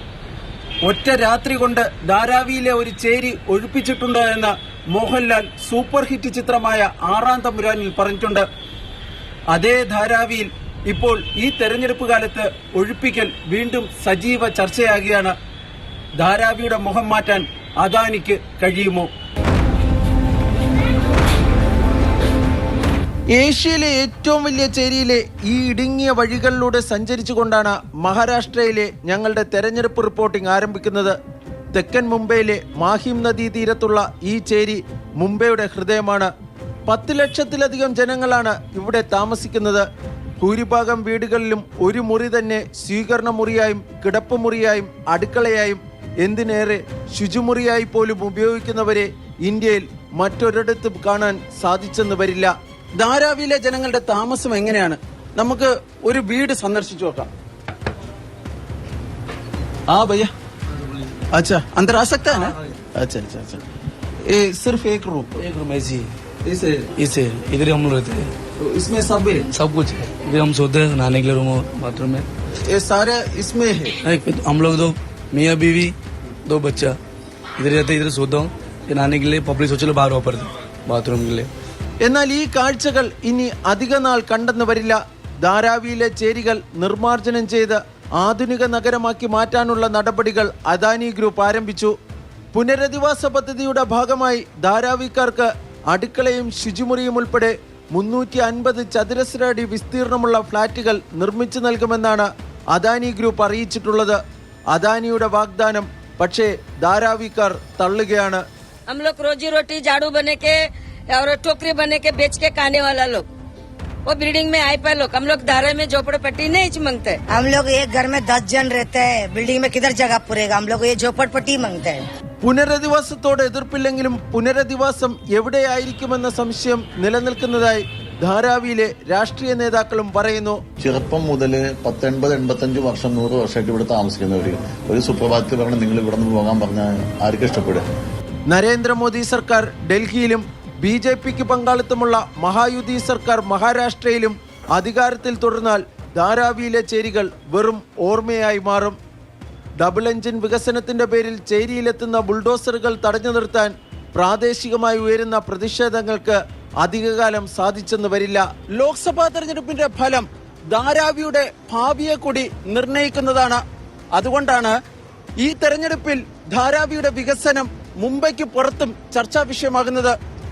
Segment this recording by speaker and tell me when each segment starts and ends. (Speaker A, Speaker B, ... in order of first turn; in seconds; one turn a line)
Speaker A: 0.8-8.5
Speaker A: 9.5-15.3
Speaker A: 16.2-19.1
Speaker A: 23.3-31.1
Speaker A: 31.7-36.3
Speaker A: 36.9-39.9
Speaker A: 40.4-57.3
Speaker A: 59.9-60.3
Speaker A: 61.3-63.6
Speaker A: 64.2-65.4
Speaker B: 65.4-66.1
Speaker A: 66.4-66.9
Speaker B: 67.0-68.3
Speaker A: 68.6-69.5
Speaker B: 69.5-72.3
Speaker A: 72.7-74.0
Speaker B: 74.0-75.9
Speaker B: 76.5-77.0
Speaker B: 77.6-81.5
Speaker A: 82.0-91.9
Speaker A: 92.5-104.2
Speaker A: 104.7-108.4
Speaker C: 108.9-110.6
Speaker C: 111.1-113.2
Speaker C: 114.0-117.2
Speaker D: 117.3-122.0
Speaker A: 122.4-130.6
Speaker E: 130.8-137.9
Speaker A: 138.5-148.9
Speaker A: 149.8-163.6
Speaker A: 164.1-164.8
Speaker A: 165.4-170.2